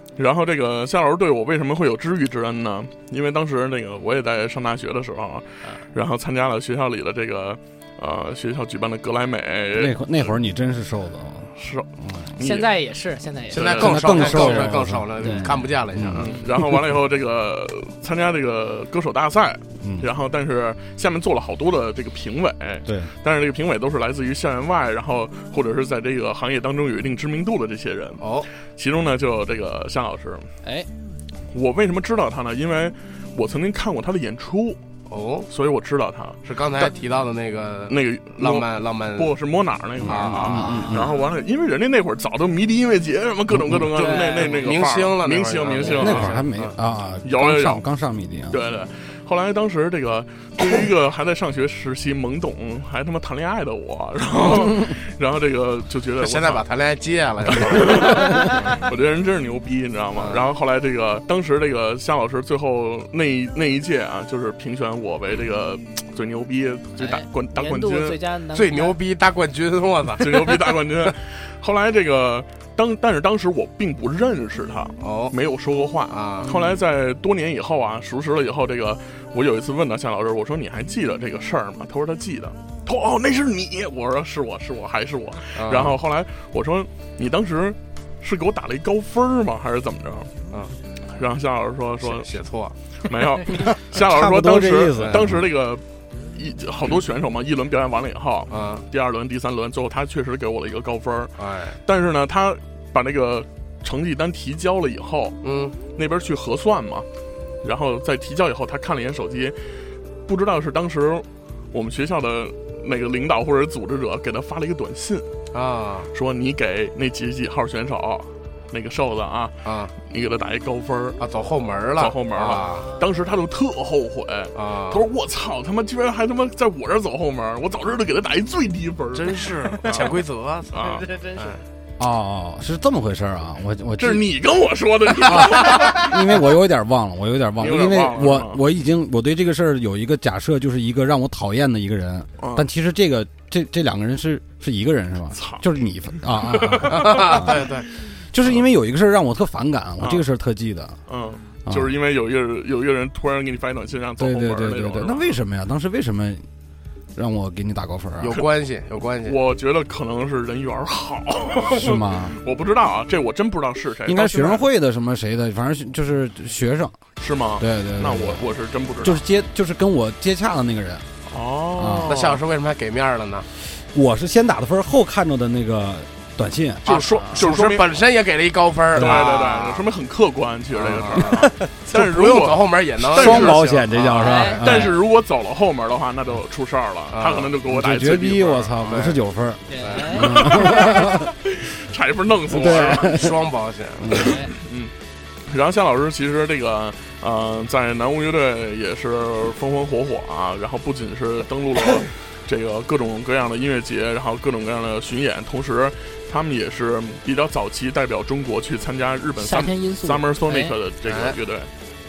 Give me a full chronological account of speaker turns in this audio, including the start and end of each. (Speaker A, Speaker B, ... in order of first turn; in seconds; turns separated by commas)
Speaker A: 0.2-10.3, Speaker B: 9.7-12.3, Speaker A: 11.6-12.7, Speaker C: 12.4-13.8, Speaker D: 13.5-16.4, Speaker A: 13.5-14.7, Speaker B: 13.8-16.9, Speaker C: 15.2-15.5, Speaker A: 16.1-30.5, Speaker B: 19.8-20.1, Speaker B: 22.9-23.1, Speaker D: 28.2-28.5, Speaker A: 31.5-34.8, Speaker D: 35.1-35.5, Speaker A: 35.5-36.9, Speaker D: 36.4-39.4, Speaker A: 37.9-46.4, Speaker B: 40.0-41.1, Speaker D: 40.1-40.7, Speaker C: 40.5-41.0, Speaker B: 43.5-43.9, Speaker D: 43.9-46.8, Speaker C: 44.0-44.7, Speaker C: 45.8-46.3, Speaker B: 46.0-48.6, Speaker A: 47.2-47.8, Speaker A: 48.5-56.7, Speaker D: 56.2-58.6, Speaker A: 57.5-68.2, Speaker D: 60.2-60.4, Speaker C: 67.0-69.0, Speaker D: 68.5-70.7, Speaker A: 70.2-90.3, Speaker D: 75.0-75.3, Speaker D: 76.1-76.5, Speaker C: 76.4-76.8, Speaker D: 85.6-86.0, Speaker A: 91.1-92.3, Speaker D: 92.0-92.8, Speaker A: 93.1-105.4, Speaker B: 93.9-95.4, Speaker D: 95.0-95.2, Speaker D: 98.5-98.8, Speaker D: 101.4-101.8, Speaker D: 105.4-105.8, Speaker A: 105.9-107.1, Speaker A: 107.6-109.6, Speaker A: 110.3-115.3, Speaker D: 115.5-116.1, Speaker A: 116.1-119.5, Speaker D: 119.7-119.9, Speaker A: 120.1-121.2, Speaker D: 121.2-122.9, Speaker A: 122.0-131.1, Speaker D: 124.5-125.0, Speaker D: 129.1-131.6, Speaker C: 130.8-131.6, Speaker B: 132.0-134.3, Speaker A: 134.0-136.5, Speaker B: 135.1-147.7, Speaker A: 137.6-138.6, Speaker A: 142.4-142.7, Speaker A: 145.3-145.6, Speaker A: 146.2-147.6, Speaker D: 146.9-147.9, Speaker B: 148.3-151.0, Speaker A: 150.0-150.3, Speaker A: 151.1-155.4, Speaker B: 151.7-151.9, Speaker B: 154.2-156.4, Speaker B: 157.2-158.4, Speaker D: 158.2-159.4, Speaker A: 159.2-164.7, Speaker B: 161.7-162.4, Speaker B: 164.1-167.0, Speaker A: 167.2-169.2, Speaker B: 167.6-168.4, Speaker B: 169.0-171.1, Speaker A: 171.3-172.4, Speaker B: 171.8-172.2, Speaker D: 172.1-173.5, Speaker B: 173.7-176.8, Speaker A: 176.8-178.0, Speaker D: 176.8-179.8, Speaker B: 178.9-179.3, Speaker A: 178.9-183.8, Speaker D: 180.7-184.5, Speaker B: 181.2-181.7, Speaker B: 183.1-184.9, Speaker C: 184.1-185.0, Speaker A: 184.6-189.0, Speaker D: 187.1-187.5, Speaker B: 187.7-191.3, Speaker D: 188.8-189.2, Speaker C: 189.7-190.8, Speaker D: 189.8-190.2, Speaker A: 190.2-193.3, Speaker D: 192.5-194.3, Speaker B: 192.5-193.4, Speaker B: 194.0-194.3, Speaker C: 194.2-194.5, Speaker A: 194.5-194.9, Speaker A: 195.5-211.7, Speaker C: 209.4-210.7, Speaker D: 211.1-211.3